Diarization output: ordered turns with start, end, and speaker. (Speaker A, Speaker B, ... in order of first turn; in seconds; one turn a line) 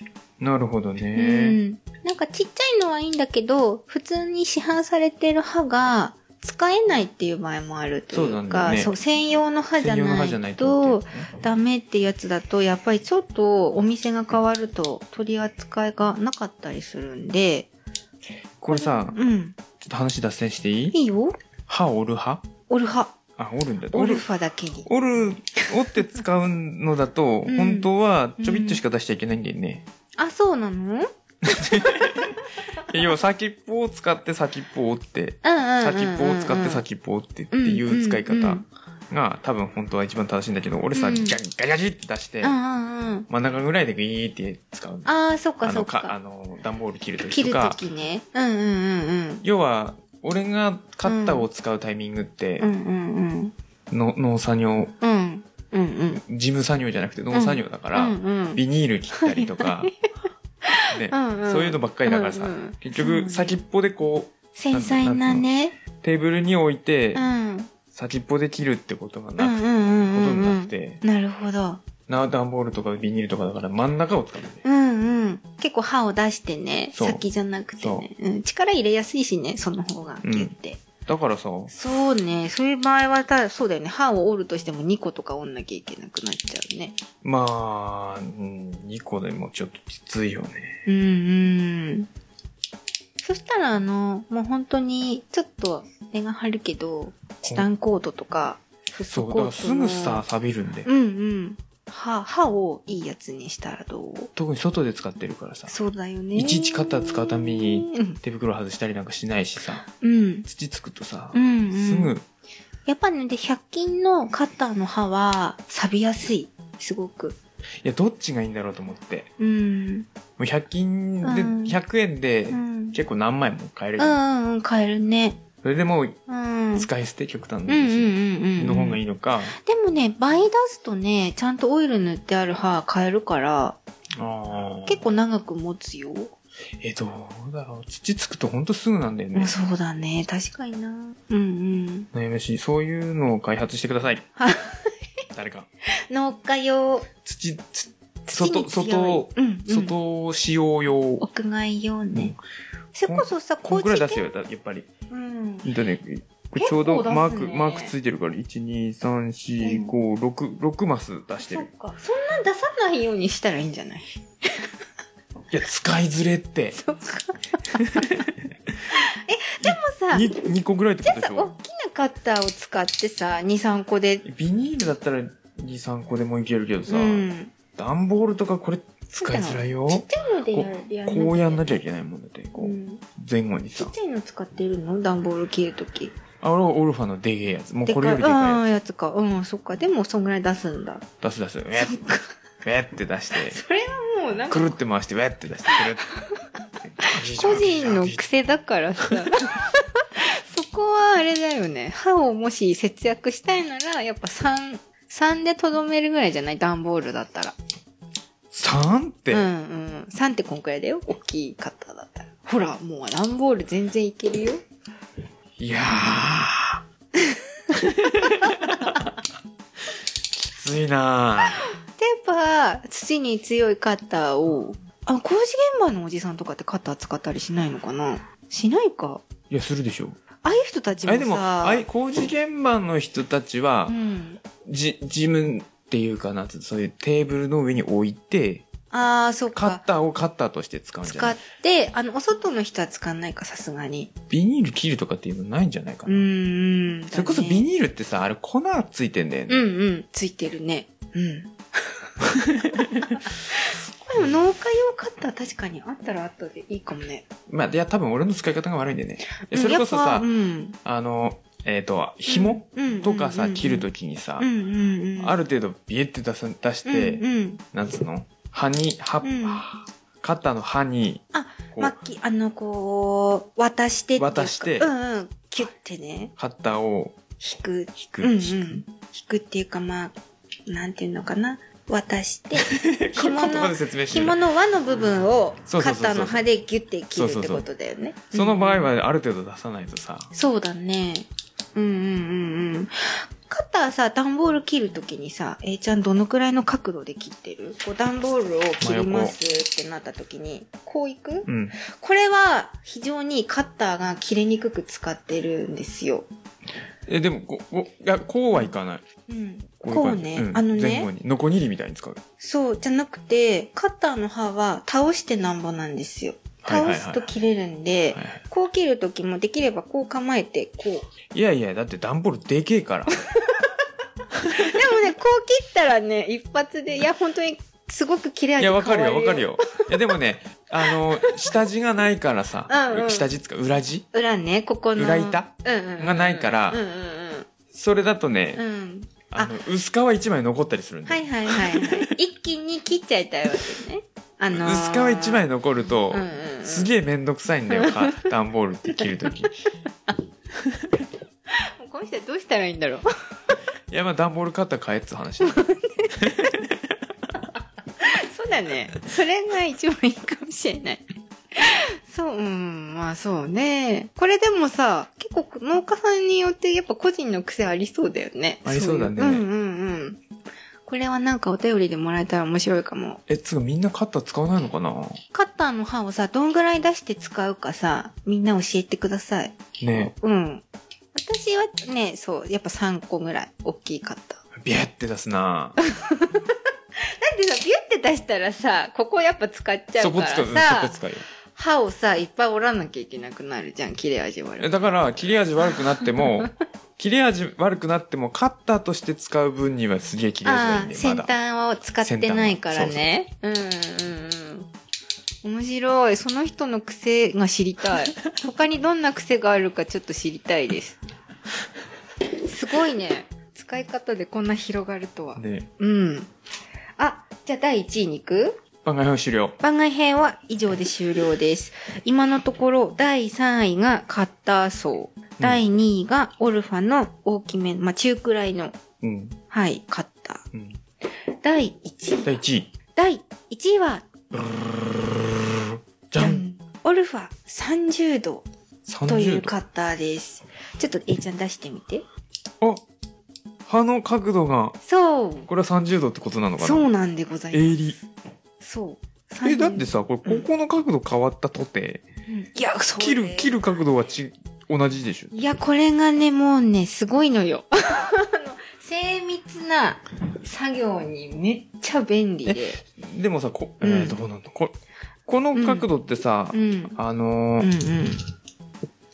Speaker A: 0.4-1.6
Speaker B: 1.1-17.7
Speaker A: 8.1-8.9
Speaker A: 9.8-11.3
Speaker A: 18.6-19.2
Speaker B: 18.7-19.6
Speaker A: 19.8-21.0
Speaker B: 20.9-21.4
Speaker A: 21.7-22.4
Speaker B: 22.7-23.1
Speaker A: 23.4-24.3
Speaker B: 23.9-24.9
Speaker A: 24.9-29.9
Speaker B: 25.7-26.2
Speaker B: 27.5-28.8
Speaker B: 30.2-31.1
Speaker A: 31.4-42.6
Speaker B: 31.8-32.3
Speaker B: 35.4-36.9
Speaker B: 37.5-38.6
Speaker B: 41.0-41.4
Speaker B: 42.4-43.3
Speaker A: 43.3-45.1
Speaker B: 45.0-46.1
Speaker A: 45.6-47.8
Speaker B: 47.3-49.4
Speaker A: 49.4-52.7
Speaker B: 51.1-51.5
Speaker B: 52.6-53.5
Speaker A: 53.9-54.9
Speaker B: 55.0-56.2
Speaker A: 56.2-59.9
Speaker B: 57.3-58.6
Speaker B: 59.1-59.9
Speaker B: 60.6-63.6
Speaker A: 60.9-65.5
Speaker B: 64.5-65.8
Speaker A: 66.0-67.3
Speaker B: 67.2-67.7
Speaker A: 67.9-71.0
Speaker B: 69.4-71.8
Speaker A: 72.1-74.6
Speaker B: 74.6-80.8
Speaker A: 76.9-77.2
Speaker A: 77.8-78.1
Speaker A: 80.2-80.5
Speaker A: 81.1-81.7
Speaker B: 81.7-87.0
Speaker A: 87.2-90.8
Speaker B: 90.9-92.1
Speaker B: 93.2-100.2
Speaker A: 99.1-100.9
Speaker B: 100.8-104.3
Speaker A: 104.4-105.7
Speaker B: 105.7-108.2
Speaker A: 106.3-109.8
Speaker B: 110.0-110.5
Speaker A: 110.5-112.2
Speaker B: 111.3-112.1
Speaker B: 112.9-117.4
Speaker A: 117.8-119.3
Speaker B: 119.4-120.1
Speaker A: 120.4-124.2
Speaker B: 121.2-121.8
Speaker B: 122.5-123.0
Speaker B: 124.0-125.4
Speaker A: 125.6-126.2
Speaker B: 126.3-126.9
Speaker A: 126.8-129.6
Speaker B: 127.7-129.0
Speaker B: 129.5-133.8
Speaker A: 134.2-135.1
Speaker B: 134.9-136.3
Speaker A: 136.8-139.5
Speaker B: 139.3-142.1
Speaker A: 142.1-144.3
Speaker B: 144.4-145.0
Speaker A: 145.3-145.7
Speaker B: 146.1-147.1
Speaker A: 147.2-151.2
Speaker B: 148.3-149.9
Speaker B: 151.2-152.3
Speaker A: 152.1-152.4
Speaker B: 152.9-154.3
Speaker A: 153.1-154.9
Speaker B: 155.1-155.7
Speaker A: 155.6-161.7
Speaker B: 156.6-157.9
Speaker B: 159.6-159.9
Speaker B: 161.4-164.7
Speaker A: 165.5-166.8
Speaker B: 166.8-168.3
Speaker A: 167.8-168.3
Speaker B: 168.9-170.3
Speaker A: 169.6-171.5
Speaker B: 171.0-174.2
Speaker A: 174.2-183.9
Speaker B: 176.9-177.5
Speaker B: 179.2-181.8
Speaker B: 182.6-183.0
Speaker B: 183.8-186.2
Speaker A: 186.4-188.6
Speaker B: 187.9-191.1
Speaker A: 191.2-192.0
Speaker B: 191.8-192.3
Speaker A: 192.6-193.6
Speaker B: 193.3-194.8
Speaker A: 194.5-196.1
Speaker A: 196.8-198.2
Speaker B: 197.0-207.6
Speaker A: 199.0-199.3
Speaker A: 208.5-209.5
Speaker B: 209.3-214.6
Speaker A: 215.6-216.8
Speaker B: 217.2-219.1
Speaker A: 217.7-219.2
Speaker A: 220.3-221.6
Speaker B: 222.0-229.2
Speaker A: 229.5-230.2
Speaker B: 230.4-231.8
Speaker A: 231.1-234.0
Speaker B: 233.9-234.4
Speaker A: 234.6-238.7
Speaker B: 238.9-239.8
Speaker A: 239.5-241.4
Speaker B: 241.0-244.1
Speaker A: 244.3-246.2
Speaker B: 246.1-247.7
Speaker A: 247.1-249.7
Speaker B: 249.5-252.0
Speaker A: 252.2-253.2
Speaker B: 252.6-257.3
Speaker A: 257.5-260.3
Speaker B: 259.4-260.8
Speaker A: 260.9-264.5
Speaker B: 262.3-263.9
Speaker B: 264.4-265.4
Speaker A: 265.2-272.0
Speaker B: 266.9-267.6
Speaker B: 269.2-269.6
Speaker B: 271.3-276.3
Speaker A: 274.2-274.9
Speaker A: 276.4-277.2
Speaker B: 277.4-280.1
Speaker A: 278.0-278.8
Speaker B: 280.7-288.9
Speaker A: 282.6-284.4
Speaker A: 285.7-286.4
Speaker A: 287.1-287.7
Speaker A: 288.3-290.3
Speaker B: 290.3-306.3
Speaker A: 298.8-299.4
Speaker A: 301.5-301.8
Speaker A: 307.1-309.0
Speaker B: 309.3-311.1
Speaker A: 309.8-312.2
Speaker B: 312.4-321.1
Speaker A: 316.6-317.3
Speaker A: 318.1-318.4
Speaker A: 321.3-323.1
Speaker B: 323.4-323.6
Speaker A: 324.3-324.9
Speaker B: 324.5-330.1
Speaker A: 328.6-334.1
Speaker B: 330.8-331.6
Speaker B: 332.7-333.3
Speaker B: 334.1-337.5
Speaker A: 335.0-336.8
Speaker A: 337.7-338.6
Speaker B: 338.6-339.6
Speaker A: 339.3-342.1
Speaker B: 341.1-345.5
Speaker A: 344.5-349.5
Speaker B: 346.1-346.9
Speaker B: 347.7-348.3
Speaker B: 348.9-349.3
Speaker B: 351.5-353.0
Speaker A: 353.9-357.0
Speaker B: 355.4-356.6
Speaker B: 357.4-370.2
Speaker A: 368.6-369.5
Speaker B: 370.9-373.2
Speaker A: 373.3-375.2
Speaker B: 375.3-384.4
Speaker A: 379.8-380.1
Speaker A: 384.6-385.8
Speaker B: 385.8-391.0
Speaker A: 390.0-391.3
Speaker B: 391.5-394.7
Speaker A: 394.6-401.3
Speaker B: 395.7-396.5
Speaker B: 400.4-404.7
Speaker A: 402.0-403.1
Speaker B: 405.4-411.0
Speaker B: 412.4-416.3
Speaker A: 415.4-415.7
Speaker B: 417.0-418.6
Speaker A: 418.8-419.6
Speaker B: 419.6-428.8
Speaker A: 429.0-429.4
Speaker B: 429.5-430.4
Speaker A: 430.5-430.8
Speaker B: 431.4-432.4
Speaker A: 432.2-432.7
Speaker B: 432.9-434.1
Speaker A: 434.3-436.4
Speaker B: 436.2-438.5
Speaker A: 438.9-439.5
Speaker B: 439.1-442.0
Speaker A: 443.6-444.8
Speaker B: 444.8-445.5
Speaker A: 445.5-446.9
Speaker B: 446.6-447.9
Speaker A: 447.5-448.0
Speaker B: 448.6-450.5
Speaker A: 449.4-452.0
Speaker B: 452.3-453.6
Speaker A: 453.0-455.3
Speaker B: 455.3-462.8
Speaker A: 462.4-464.8
Speaker B: 463.8-464.2
Speaker A: 465.3-467.7
Speaker B: 465.5-465.9
Speaker B: 466.5-467.0
Speaker B: 467.6-468.2